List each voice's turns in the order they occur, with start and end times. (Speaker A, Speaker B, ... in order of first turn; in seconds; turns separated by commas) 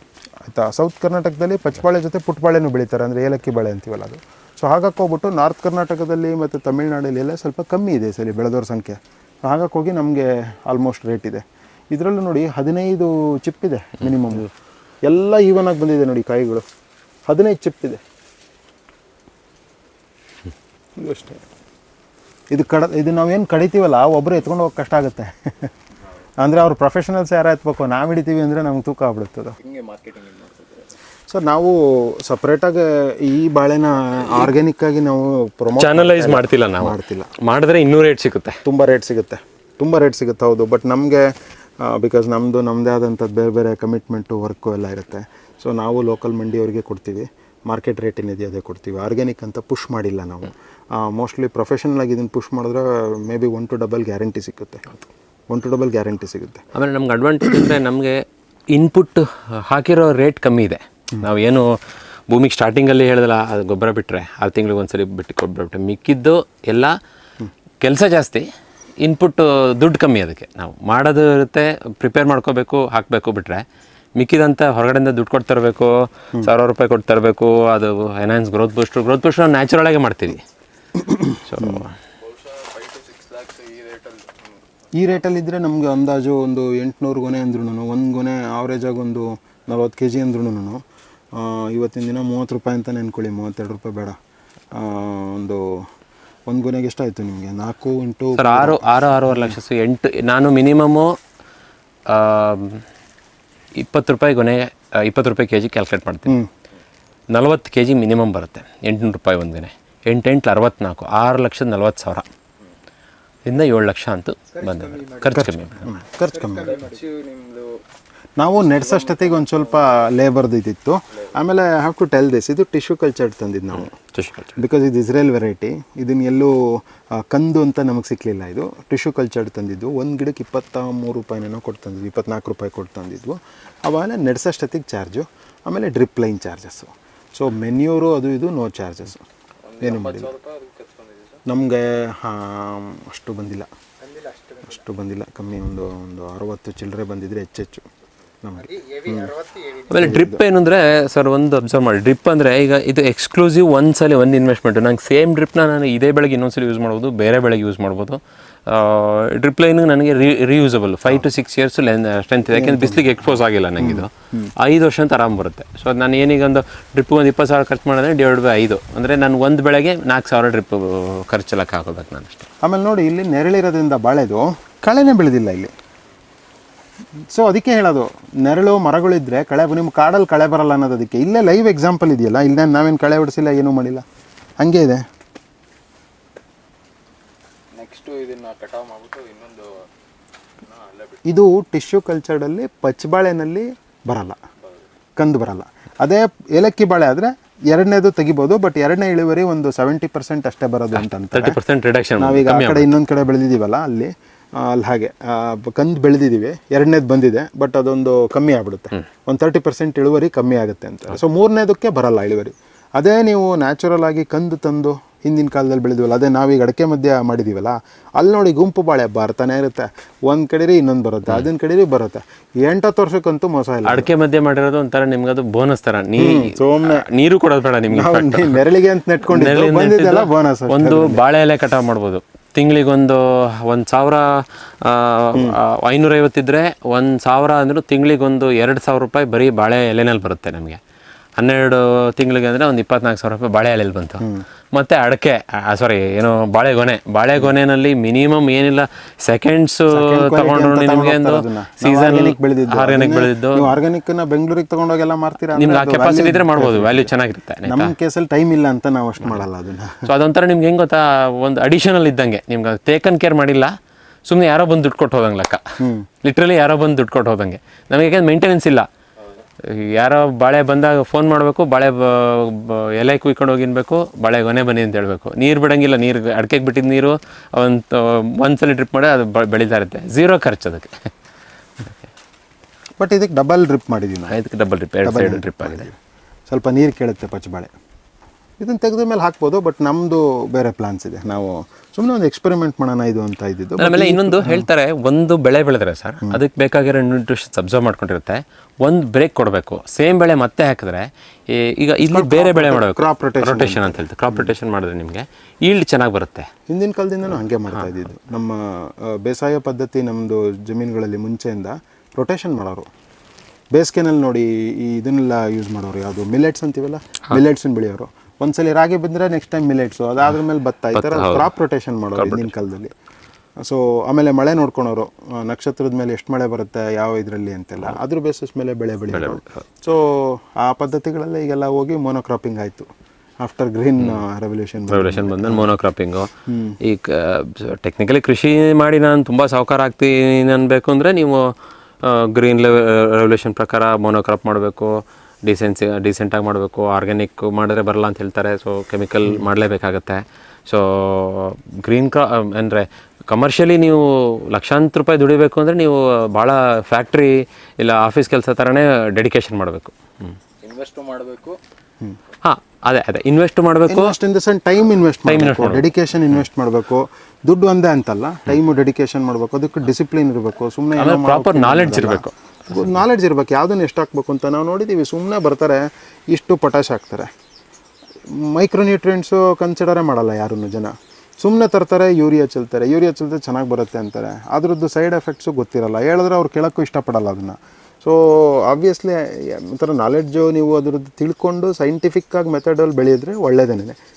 Speaker A: 0.4-14.5, Speaker A: 15.0-16.6, Speaker A: 17.3-18.0, Speaker A: 21.0-21.4, Speaker A: 22.5-25.7, Speaker A: 26.4-29.5, Speaker B: 29.6-30.9, Speaker A: 31.3-37.3, Speaker C: 35.8-38.6, Speaker A: 38.6-56.6, Speaker C: 56.7-61.8, Speaker C: 62.3-67.0, Speaker C: 67.8-68.5, Speaker C: 69.0-73.6, Speaker C: 74.2-80.4, Speaker A: 81.0-81.9, Speaker C: 81.5-81.9, Speaker B: 82.2-84.6, Speaker A: 84.9-90.8, Speaker A: 91.3-94.2, Speaker A: 94.7-95.8, Speaker A: 96.5-99.5, Speaker C: 98.3-101.2, Speaker C: 102.1-102.8, Speaker C: 103.8-106.4, Speaker C: 107.3-112.3, Speaker C: 113.5-115.9, Speaker B: 114.5-115.4, Speaker A: 115.3-116.8, Speaker B: 116.3-117.8, Speaker A: 118.4-123.9, Speaker B: 118.6-120.1, Speaker C: 124.1-124.6, Speaker A: 124.5-139.2, Speaker B: 139.6-141.4, Speaker A: 139.8-140.3, Speaker A: 141.4-143.7, Speaker A: 144.6-147.8, Speaker A: 148.4-149.4, Speaker B: 149.0-149.8, Speaker C: 149.9-172.5, Speaker A: 150.0-150.4, Speaker A: 162.5-164.5, Speaker A: 172.6-175.7, Speaker A: 177.3-184.0, Speaker A: 184.6-185.0, Speaker B: 187.7-189.9, Speaker B: 190.6-191.3, Speaker A: 191.2-194.4, Speaker A: 195.2-201.6, Speaker C: 200.9-202.9, Speaker A: 202.2-224.1, Speaker C: 223.8-228.6, Speaker A: 226.2-227.0, Speaker A: 227.9-231.2, Speaker C: 229.3-240.8, Speaker C: 241.4-253.8, Speaker A: 244.2-244.4, Speaker A: 249.9-257.1, Speaker C: 255.6-257.9, Speaker A: 257.6-260.1, Speaker C: 260.0-268.9, Speaker A: 265.8-266.1, Speaker C: 269.6-281.1, Speaker A: 283.0-284.4, Speaker C: 284.3-285.9, Speaker A: 285.0-285.9, Speaker A: 286.5-287.7, Speaker A: 288.6-294.6, Speaker C: 293.8-306.5, Speaker A: 302.1-304.5, Speaker A: 306.7-312.9, Speaker A: 313.7-322.9, Speaker C: 320.9-321.5, Speaker C: 322.1-322.5, Speaker A: 323.6-332.9, Speaker C: 329.1-329.6, Speaker A: 333.4-335.7, Speaker C: 334.9-360.4, Speaker A: 336.5-336.8, Speaker B: 360.6-361.6, Speaker C: 362.4-364.1, Speaker A: 363.9-377.3, Speaker C: 365.2-365.9, Speaker C: 370.9-372.8, Speaker A: 378.3-394.0